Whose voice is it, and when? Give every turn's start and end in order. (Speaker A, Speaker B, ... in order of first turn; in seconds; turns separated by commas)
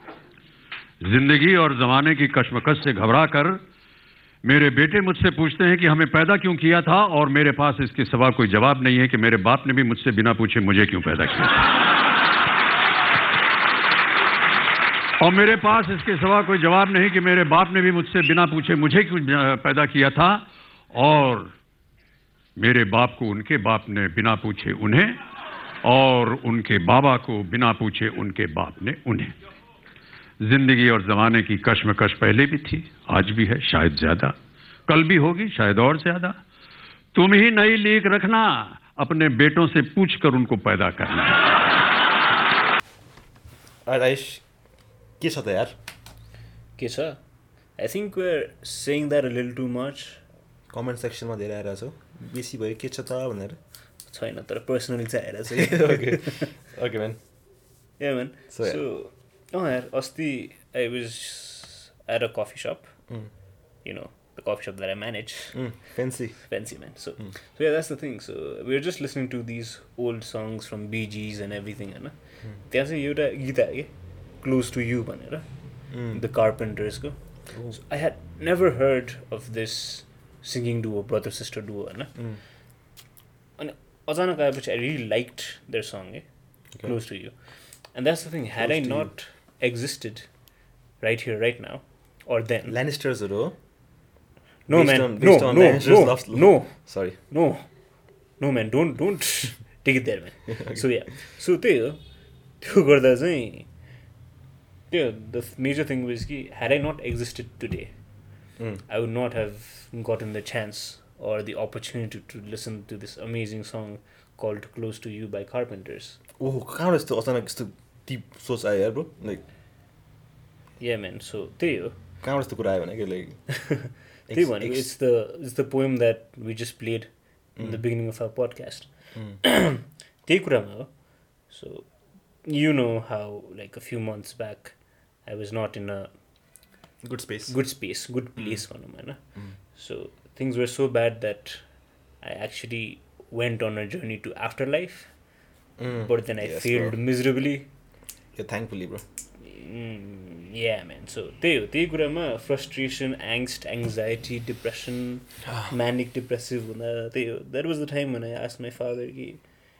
Speaker A: 1.0-3.6, Speaker A: 4.4-11.7, Speaker A: 15.2-20.4, Speaker A: 20.9-21.5, Speaker A: 22.6-25.2, Speaker A: 25.8-29.3, Speaker A: 30.4-34.3, Speaker A: 34.9-36.4, Speaker A: 37.1-41.4, Speaker B: 43.9-44.4, Speaker B: 45.2-45.8, Speaker C: 46.8-47.2, Speaker C: 47.8-50.2, Speaker B: 50.7-53.6, Speaker C: 54.1-56.5, Speaker B: 55.5-57.2, Speaker C: 58.0-62.9, Speaker B: 58.5-58.8, Speaker C: 63.8-65.6, Speaker B: 65.5-66.4, Speaker C: 66.4-72.1, Speaker C: 72.7-75.5, Speaker B: 75.9-76.2, Speaker C: 76.1-77.2, Speaker B: 77.5-77.8, Speaker C: 77.7-82.1, Speaker C: 83.6-86.3, Speaker C: 86.8-87.3, Speaker C: 87.9-90.3, Speaker B: 88.6-89.1, Speaker C: 91.0-92.8, Speaker B: 92.7-93.6, Speaker C: 94.7-96.8, Speaker B: 94.7-97.2, Speaker C: 97.3-97.7, Speaker C: 98.4-102.0, Speaker B: 100.5-100.8, Speaker C: 102.6-103.7, Speaker C: 104.9-107.9, Speaker C: 108.9-116.2, Speaker B: 116.4-119.4, Speaker C: 120.8-122.0, Speaker B: 122.2-123.4, Speaker C: 123.5-128.9, Speaker B: 124.3-124.9, Speaker C: 129.4-130.9, Speaker C: 131.5-131.9, Speaker C: 132.4-134.8, Speaker C: 135.3-136.1, Speaker B: 137.0-137.6, Speaker C: 137.5-139.2, Speaker C: 139.8-141.6, Speaker C: 142.2-145.1, Speaker B: 145.8-147.0, Speaker C: 145.9-147.7, Speaker B: 148.4-149.0, Speaker C: 149.4-159.4